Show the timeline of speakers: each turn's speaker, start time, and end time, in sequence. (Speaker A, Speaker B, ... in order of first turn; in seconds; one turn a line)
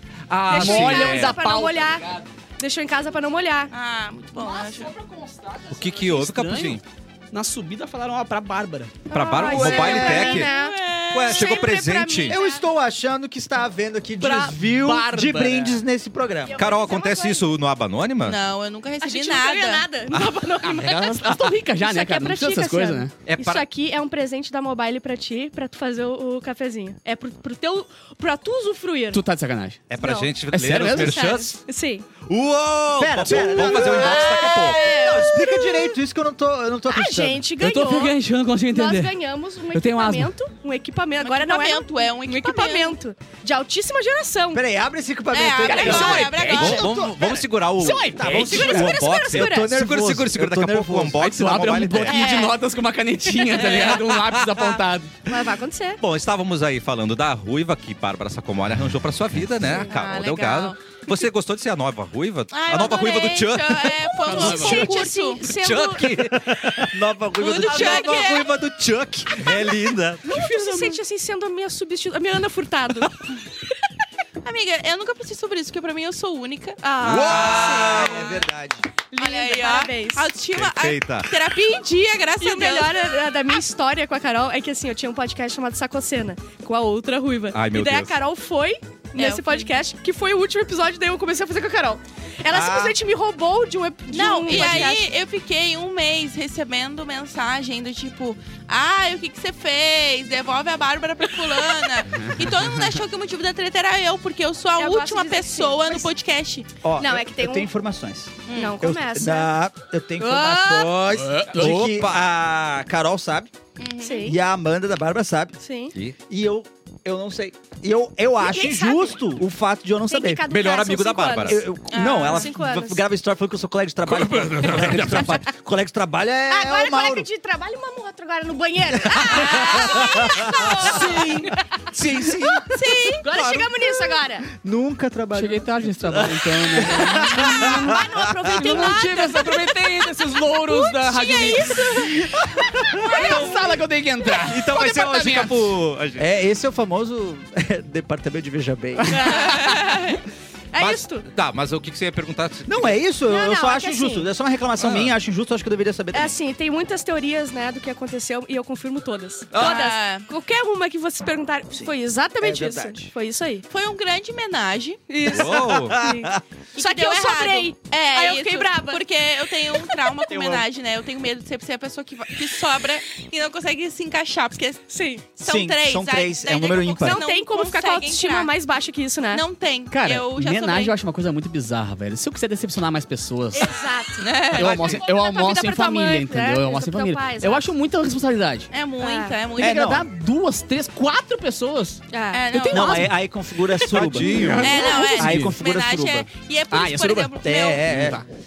Speaker A: 0.3-1.3
Speaker B: 0.4-2.3
Speaker C: 0.5-2.0
Speaker C: 2.6-3.7
Speaker D: 3.7-4.9
Speaker B: 4.3-9.1
Speaker A: 5.7-6.8
Speaker A: 9.1-10.5
Speaker C: 9.1-12.6
Speaker E: 9.4-10.4
Speaker D: 9.9-11.5
Speaker A: 11.1-12.3
Speaker E: 12.3-16.6
Speaker B: 14.2-15.8
Speaker C: 16.4-17.5
Speaker A: 16.6-18.4
Speaker D: 18.2-19.9
Speaker C: 19.0-29.2
Speaker B: 20.6-23.1
Speaker A: 23.2-23.6
Speaker B: 29.1-29.8
Speaker A: 29.9-31.6
Speaker C: 30.0-30.3
Speaker B: 30.5-31.2
Speaker C: 30.9-32.0
Speaker A: 32.2-35.0
Speaker E: 33.0-37.4
Speaker C: 33.4-35.8
Speaker D: 33.6-35.5
Speaker C: 36.9-38.2
Speaker B: 37.5-39.2
Speaker C: 38.7-44.6
Speaker B: 39.7-40.3
Speaker D: 41.2-43.0
Speaker E: 44.5-51.3
Speaker D: 45.3-46.9
Speaker B: 45.6-47.0
Speaker A: 46.4-52.4
Speaker B: 47.8-49.0
Speaker C: 48.5-49.7
Speaker B: 51.1-55.1
Speaker D: 52.0-52.6
Speaker D: 53.5-54.0
Speaker A: 54.1-54.8
Speaker C: 55.2-56.0
Speaker A: 56.0-64.0
Speaker D: 59.9-61.0
Speaker D: 62.5-65.5
Speaker C: 64.1-66.3
Speaker B: 64.2-65.0
Speaker A: 65.5-70.5
Speaker E: 66.8-68.1
Speaker D: 67.4-68.4
Speaker C: 67.6-68.4
Speaker C: 70.2-73.2
Speaker D: 74.4-78.3
Speaker C: 76.8-78.2
Speaker E: 77.0-78.9
Speaker A: 77.0-78.3
Speaker C: 79.1-80.3
Speaker D: 79.2-83.2
Speaker A: 80.5-81.3
Speaker C: 82.4-95.1
Speaker A: 87.5-88.2
Speaker D: 89.2-89.7
Speaker A: 92.5-92.9
Speaker D: 94.1-106.7
Speaker B: 102.1-103.0
Speaker C: 104.8-106.1
Speaker E: 106.8-113.5
Speaker C: 107.0-107.7
Speaker D: 108.5-108.8
Speaker C: 108.5-109.5
Speaker C: 110.2-111.0
Speaker B: 111.1-112.0
Speaker A: 111.5-112.1
Speaker D: 113.8-114.4
Speaker C: 114.0-114.4
Speaker E: 114.2-115.5
Speaker C: 115.6-115.9
Speaker E: 116.3-120.5
Speaker C: 118.4-119.2
Speaker C: 120.1-123.0
Speaker A: 120.4-121.7
Speaker E: 121.5-127.3
Speaker D: 121.9-122.5
Speaker B: 124.0-125.4
Speaker A: 124.8-125.3
Speaker C: 126.5-131.6
Speaker E: 129.0-131.5
Speaker D: 130.8-131.4
Speaker A: 131.9-132.7
Speaker E: 132.0-133.0
Speaker D: 132.7-133.2
Speaker C: 133.2-134.5
Speaker A: 133.3-133.7
Speaker E: 134.5-137.9
Speaker B: 135.3-137.8
Speaker C: 136.8-142.2
Speaker B: 138.5-142.2
Speaker C: 143.1-143.8
Speaker B: 143.1-145.7
Speaker A: 144.4-146.3
Speaker E: 146.2-149.4
Speaker C: 149.1-149.9
Speaker D: 149.3-150.2
Speaker C: 150.7-151.2
Speaker A: 150.8-152.9
Speaker E: 152.7-156.3
Speaker C: 153.3-154.3
Speaker A: 154.8-155.1
Speaker C: 156.1-163.6
Speaker D: 159.5-160.3
Speaker E: 161.7-163.1
Speaker D: 163.7-165.0
Speaker C: 165.1-169.0
Speaker A: 165.3-166.1
Speaker E: 165.4-166.0
Speaker D: 166.8-178.5
Speaker E: 170.3-170.6
Speaker C: 174.9-175.2
Speaker E: 175.4-177.2
Speaker C: 177.0-179.4
Speaker D: 179.3-180.9
Speaker B: 179.9-183.8
Speaker C: 183.5-187.7
Speaker D: 184.2-185.0
Speaker B: 184.5-188.7
Speaker A: 184.7-185.0
Speaker D: 188.7-189.9
Speaker C: 189.0-189.3
Speaker B: 189.6-192.0
Speaker E: 189.6-190.1
Speaker C: 192.1-193.0
Speaker D: 192.3-193.1
Speaker B: 192.5-195.6
Speaker E: 192.7-196.3
Speaker A: 193.9-194.8
Speaker D: 194.6-197.8
Speaker B: 196.7-198.2
Speaker E: 197.4-198.2